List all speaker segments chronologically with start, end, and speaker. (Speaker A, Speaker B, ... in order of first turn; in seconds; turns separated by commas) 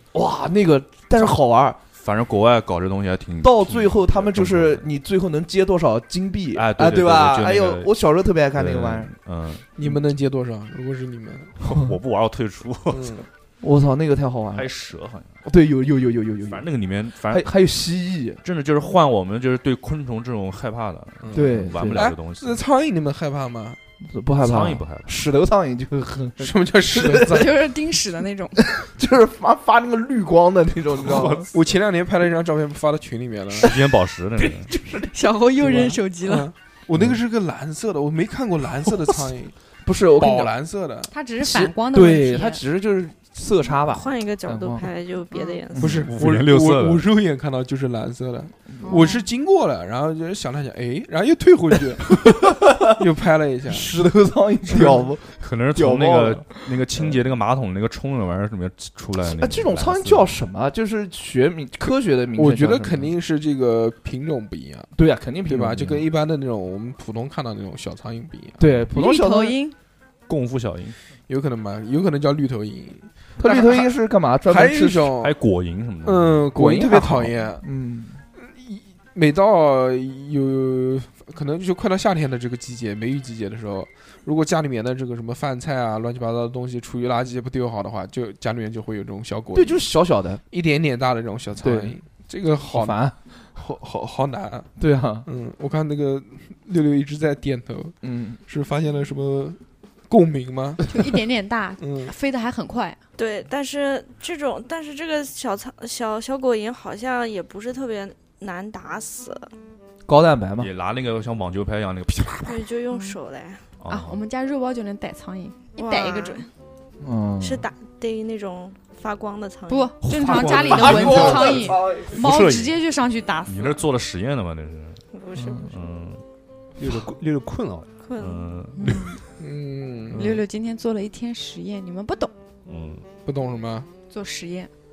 Speaker A: 0.1-1.8, Speaker B: 1.9-4.9, Speaker A: 3.4-9.1, Speaker B: 6.5-7.9, Speaker B: 8.5-9.7, Speaker C: 9.8-11.6, Speaker B: 11.6-13.2, Speaker C: 12.9-13.3, Speaker A: 13.6-14.7, Speaker B: 14.5-15.4, Speaker A: 15.4-16.7, Speaker B: 16.5-17.5, Speaker A: 17.2-18.4, Speaker B: 18.4-22.6, Speaker C: 21.2-23.8, Speaker A: 21.3-22.1, Speaker A: 24.0-27.5, Speaker B: 24.4-25.1, Speaker C: 26.4-27.7, Speaker D: 27.2-28.6, Speaker A: 28.6-31.5, Speaker B: 31.0-31.5, Speaker C: 31.0-33.7, Speaker B: 33.6-34.7, Speaker A: 34.7-35.1, Speaker D: 35.1-36.5, Speaker C: 35.6-39.5, Speaker A: 35.6-35.9, Speaker A: 39.8-40.5, Speaker C: 40.1-41.1, Speaker D: 41.1-42.6, Speaker A: 41.4-44.9, Speaker E: 43.8-46.0, Speaker D: 45.3-45.6, Speaker C: 45.8-53.9, Speaker A: 45.8-46.0, Speaker B: 45.8-47.0, Speaker D: 48.8-49.3, Speaker A: 52.2-52.9, Speaker A: 53.7-56.7, Speaker B: 54.8-60.4, Speaker A: 59.2-63.1, Speaker C: 62.4-64.9, Speaker A: 64.9-66.0, Speaker C: 65.5-68.7, Speaker A: 68.6-69.6, Speaker D: 68.9-69.7, Speaker B: 70.3-71.0, Speaker C: 71.3-73.9, Speaker A: 73.4-75.1, Speaker C: 74.5-75.4, Speaker B: 75.2-76.4, Speaker C: 76.0-77.6, Speaker A: 76.5-78.2, Speaker C: 78.3-89.8, Speaker A: 89.5-90.4, Speaker C: 90.5-93.0, Speaker A: 91.6-92.0, Speaker A: 92.7-93.1, Speaker C: 93.5-94.7, Speaker A: 94.8-95.3, Speaker C: 95.2-100.9, Speaker A: 98.0-98.4, Speaker D: 100.8-103.0, Speaker C: 101.8-102.1, Speaker E: 103.2-109.5, Speaker A: 110.1-110.7, Speaker B: 110.6-112.7, Speaker E: 112.5-113.6, Speaker D: 112.9-113.2, Speaker B: 113.8-114.2, Speaker D: 113.9-116.5, Speaker E: 115.8-116.5, Speaker A: 117.0-117.7, Speaker E: 117.4-120.5, Speaker D: 119.7-123.8, Speaker A: 120.1-122.2, Speaker F: 120.3-122.8, Speaker B: 123.5-125.0, Speaker E: 125.1-125.6, Speaker A: 125.3-125.7, Speaker B: 125.7-126.2, Speaker F: 126.8-127.9, Speaker E: 128.0-128.5, Speaker B: 128.2-129.1, Speaker D: 128.7-129.2, Speaker C: 129.4-130.2, Speaker D: 130.1-132.3, Speaker B: 132.7-133.0, Speaker C: 133.2-133.9, Speaker D: 134.1-134.7